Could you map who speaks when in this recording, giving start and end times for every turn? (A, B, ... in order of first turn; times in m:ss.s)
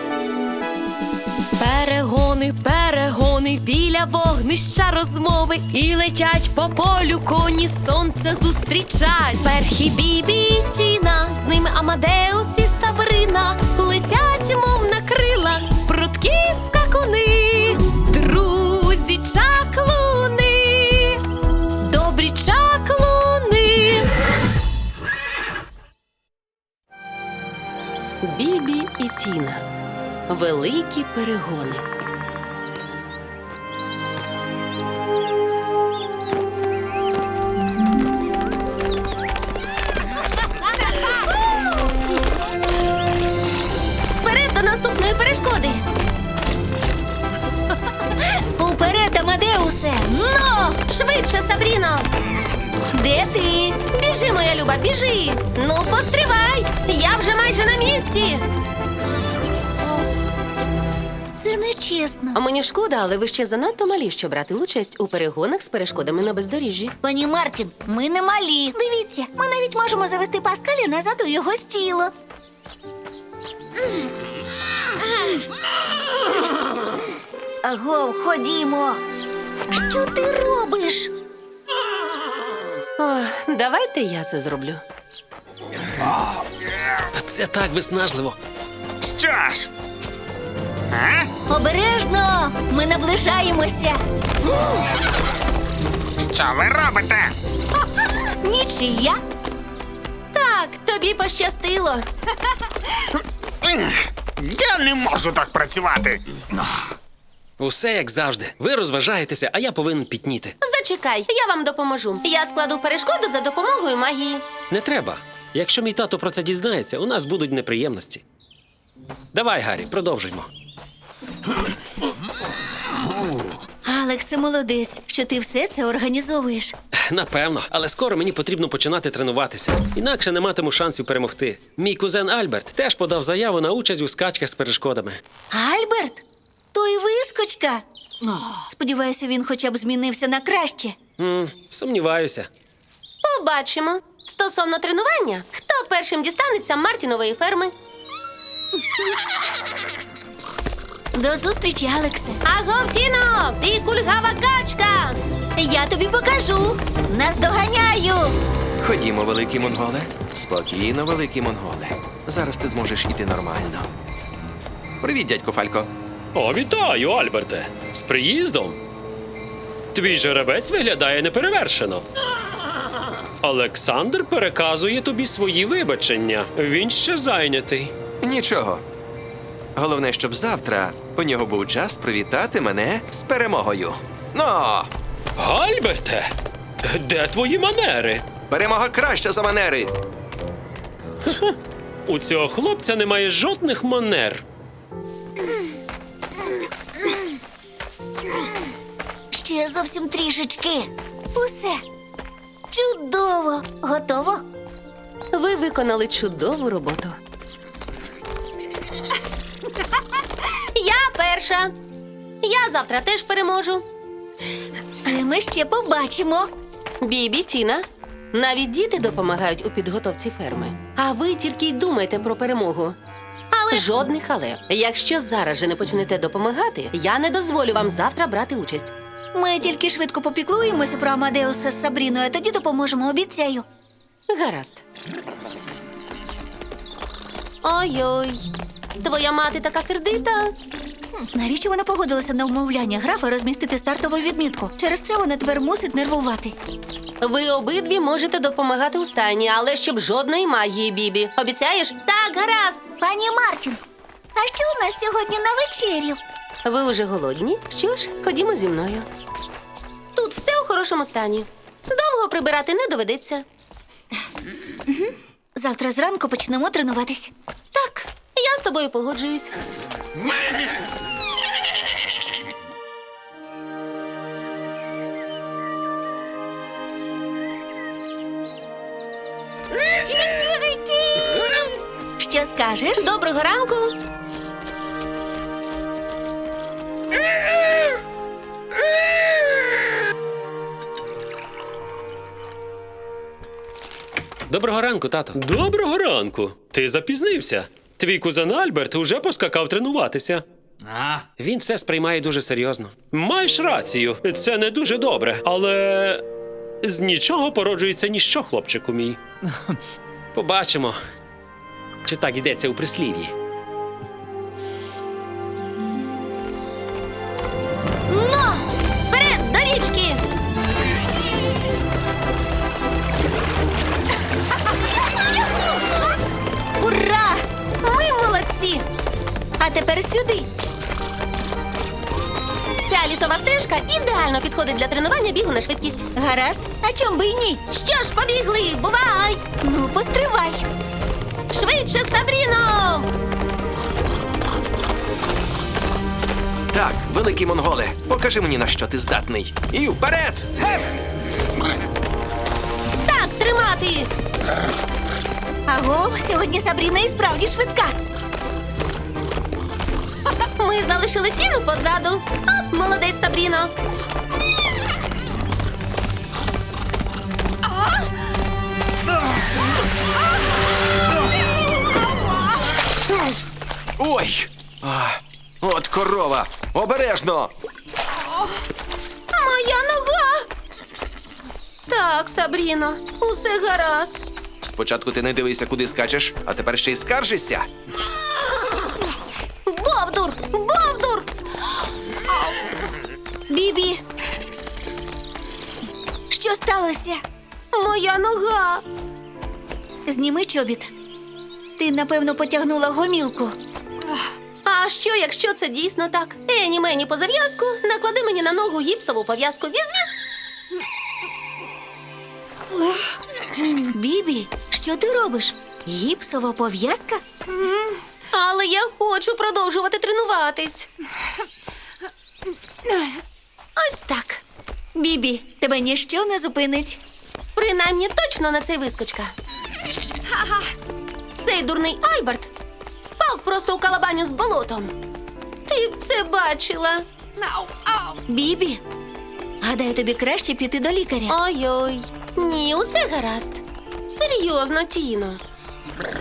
0:01.6-0:21.2 A
0:21.8-0:24.1 A
0:28.2-0:29.6 B
0:30.3-0:31.8 B
0:44.2-0:45.8 B
0:48.2-0:50.8 C
0:50.9-0:52.1 B
0:52.9-0:53.8 C
0:53.9-0:58.4 B
1:01.4-1:02.4 C
1:02.3-1:06.9 B
1:07.0-1:12.1 C
1:17.6-1:19.0 C
1:19.7-1:21.1 C
1:23.0-1:24.8 B
1:27.1-1:28.4 D
1:29.0-1:29.7 E
1:30.9-1:31.3 E
1:31.5-1:34.0 C
1:36.2-1:37.3 E
1:38.4-1:39.2 C
1:40.3-1:42.0 B
1:43.6-1:46.2 E
1:47.6-1:50.5 D
1:50.6-1:54.4 B
1:54.7-1:58.2 D
1:59.3-2:00.5 D
2:03.8-2:06.7 C
2:06.9-2:15.2 D
2:15.5-2:16.2 C
2:16.7-2:21.0 C
2:21.2-2:22.5 D
2:23.2-2:27.7 B
2:31.1-2:32.4 C
2:32.4-2:35.2 B
2:35.6-2:38.4 C
2:38.8-2:43.9 F
2:45.0-2:45.9 F
2:46.3-2:48.8 D
2:49.9-2:52.0 D
2:53.4-2:57.9 D
2:58.2-2:58.8 F
2:59.8-3:04.9 F
3:05.4-3:06.3 D
3:06.8-3:08.2 D
3:08.5-3:09.9 F
3:11.2-3:11.6 D
3:12.1-3:14.4 D
3:19.3-3:21.8 C
3:22.7-3:24.4 C
3:25.3-3:27.2 B
3:30.7-3:31.7 B
3:32.4-3:33.8 B
3:35.0-3:36.5 C
3:37.0-3:43.0 B
3:43.5-3:48.9 B
3:49.3-3:53.6 C
3:54.3-3:54.8 B
3:57.6-3:58.4 B
3:59.0-4:00.5 B
4:01.1-4:06.6 C
4:07.2-4:12.8 B
4:13.0-4:13.8 C
4:14.3-4:16.2 C
4:16.6-4:19.1 B
4:20.1-4:23.4 B
4:25.5-4:27.3 C
4:27.7-4:29.5 B
4:40.9-4:41.3 C
4:42.2-4:43.1 C
4:43.0-4:43.9 B
4:54.5-5:00.4 D
5:00.9-5:01.2 E
5:01.4-5:06.2 D
5:06.8-5:09.2 D
5:10.3-5:11.0 D
5:12.0-5:13.3 D
5:18.1-5:18.6 C
5:19.1-5:20.2 B
5:26.8-5:27.4 C
5:27.8-5:28.8 B
5:29.6-5:30.5 C
5:32.8-5:36.0 B
5:36.1-5:37.6 C
5:37.7-5:39.4 B
5:39.6-5:40.6 C
5:41.5-5:43.1 B
5:46.7-5:50.5 F
5:53.0-5:54.1 B
5:55.7-5:57.9 C
6:00.6-6:03.7 B
6:14.0-6:17.5 F
6:19.3-6:20.5 B
6:21.9-6:24.2 B
6:24.6-6:27.7 F
6:29.6-6:31.3 B
6:33.5-6:34.0 C
6:36.3-6:37.2 C
6:37.7-6:38.8 B
6:40.0-6:40.9 C
6:41.8-6:43.6 C
6:44.6-6:50.2 B
6:53.7-6:57.2 C
6:58.3-7:00.9 B
7:03.8-7:04.4 B
7:04.9-7:07.0 C
7:07.5-7:09.3 B
7:11.4-7:12.5 B
7:13.0-7:14.9 B
7:15.7-7:17.0 B
7:18.3-7:18.8 C
7:19.6-7:21.4 C
7:21.3-7:25.4 B